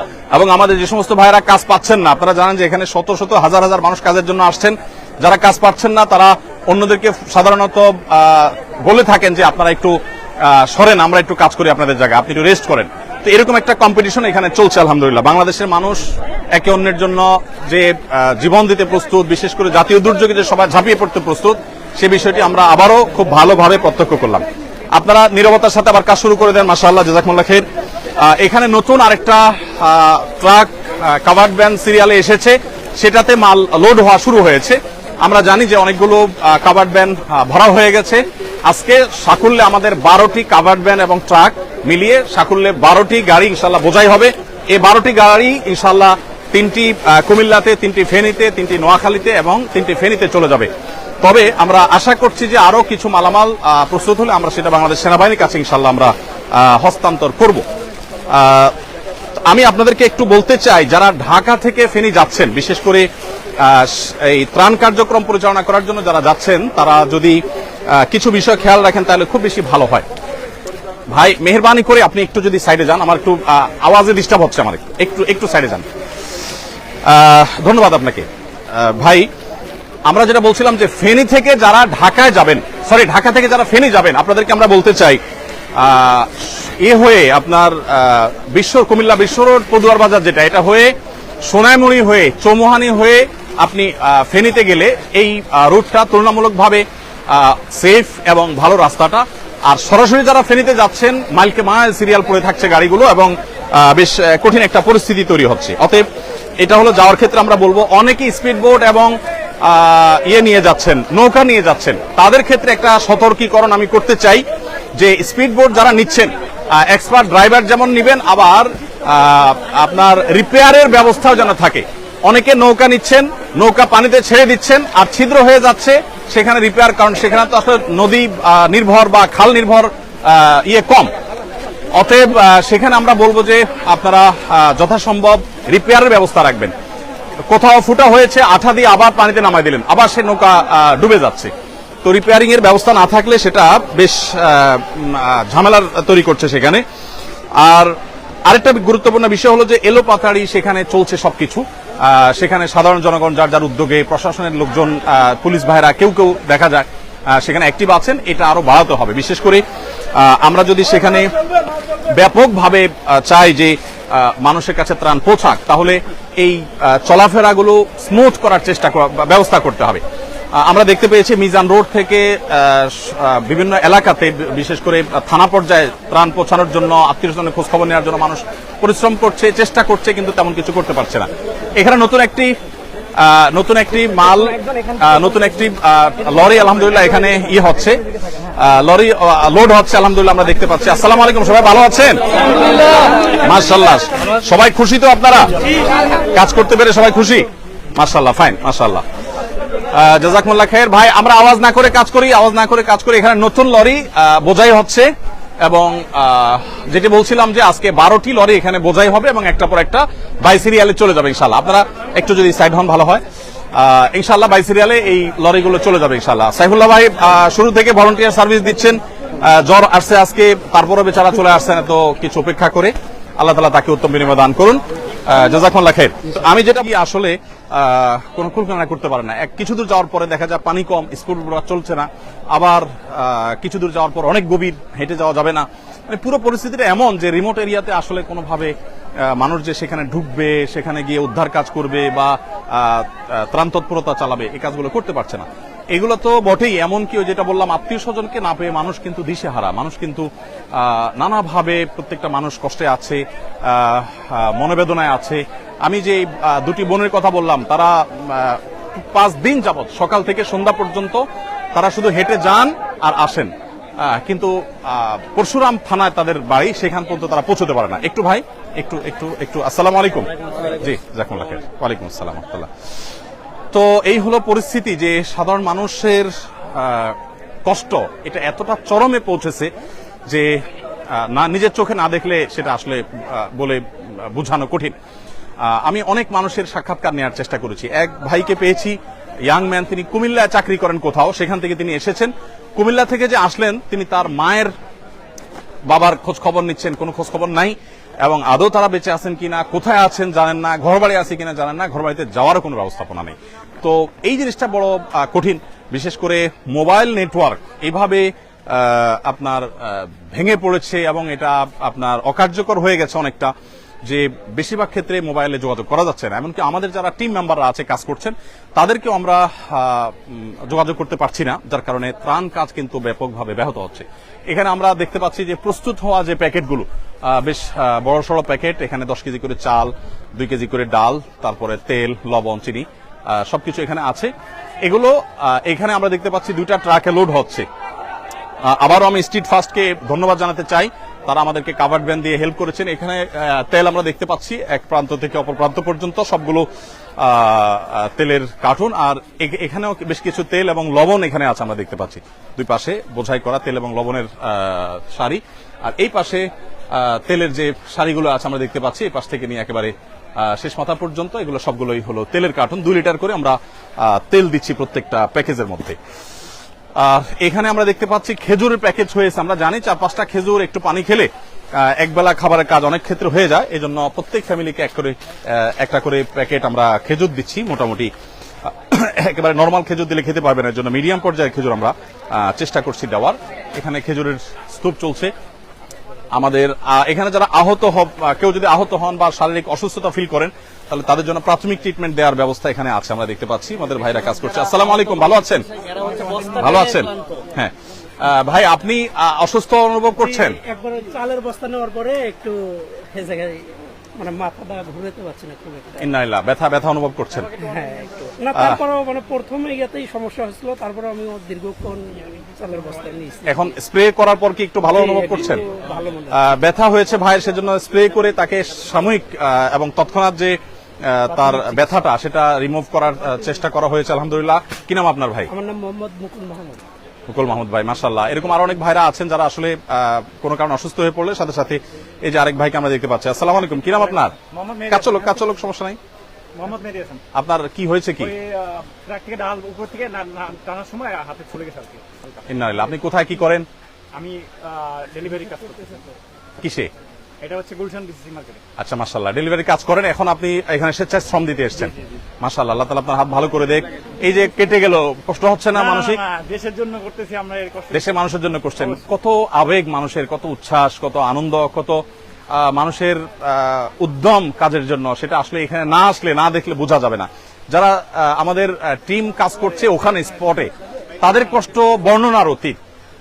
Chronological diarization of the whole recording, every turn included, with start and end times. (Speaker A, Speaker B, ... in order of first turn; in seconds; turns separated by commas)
Speaker A: 0.3-27.6, Speaker A: 28.2-50.7, Speaker A: 51.2-57.6, Speaker A: 58.3-58.7, Speaker A: 59.5-63.1, Speaker A: 63.6-70.1, Speaker A: 71.1-75.9, Speaker A: 77.0-79.3, Speaker A: 80.1-85.2, Speaker A: 85.8-106.0, Speaker A: 106.6-109.1, Speaker A: 109.6-114.4, Speaker A: 115.0-131.1, Speaker A: 132.0-136.7, Speaker A: 137.5-141.5, Speaker A: 142.0-146.8, Speaker A: 147.6-147.9, Speaker A: 148.5-159.6, Speaker A: 160.2-161.3, Speaker A: 162.2-170.0, Speaker A: 170.6-182.5, Speaker A: 183.2-188.0, Speaker A: 188.6-192.2, Speaker A: 193.3-195.5, Speaker A: 196.3-199.0, Speaker A: 199.9-205.1, Speaker A: 205.6-213.2, Speaker A: 213.8-238.7, Speaker A: 239.2-261.2, Speaker A: 261.8-272.7, Speaker A: 273.7-279.7, Speaker A: 280.3-284.9, Speaker A: 285.6-294.7, Speaker A: 295.9-313.5, Speaker A: 314.1-334.3, Speaker A: 334.8-337.7, Speaker A: 338.7-346.7, Speaker A: 347.2-366.0, Speaker A: 367.0-378.1, Speaker A: 378.6-385.3, Speaker A: 386.4-395.7, Speaker A: 396.5-400.6, Speaker B: 400.2-406.1, Speaker A: 406.0-407.5, Speaker B: 407.5-413.6, Speaker A: 408.6-408.8, Speaker A: 413.5-415.6, Speaker B: 414.9-416.4, Speaker A: 416.3-425.5, Speaker B: 421.3-421.8, Speaker B: 425.5-426.8, Speaker A: 427.3-434.4, Speaker C: 434.4-435.4, Speaker A: 434.9-436.0, Speaker C: 436.6-437.2, Speaker A: 437.3-438.4, Speaker C: 438.2-442.4, Speaker A: 442.5-443.7, Speaker C: 444.1-446.1, Speaker A: 446.6-446.9, Speaker C: 447.4-448.6, Speaker A: 448.8-456.2, Speaker C: 455.7-458.1, Speaker A: 457.9-462.0, Speaker A: 462.5-472.8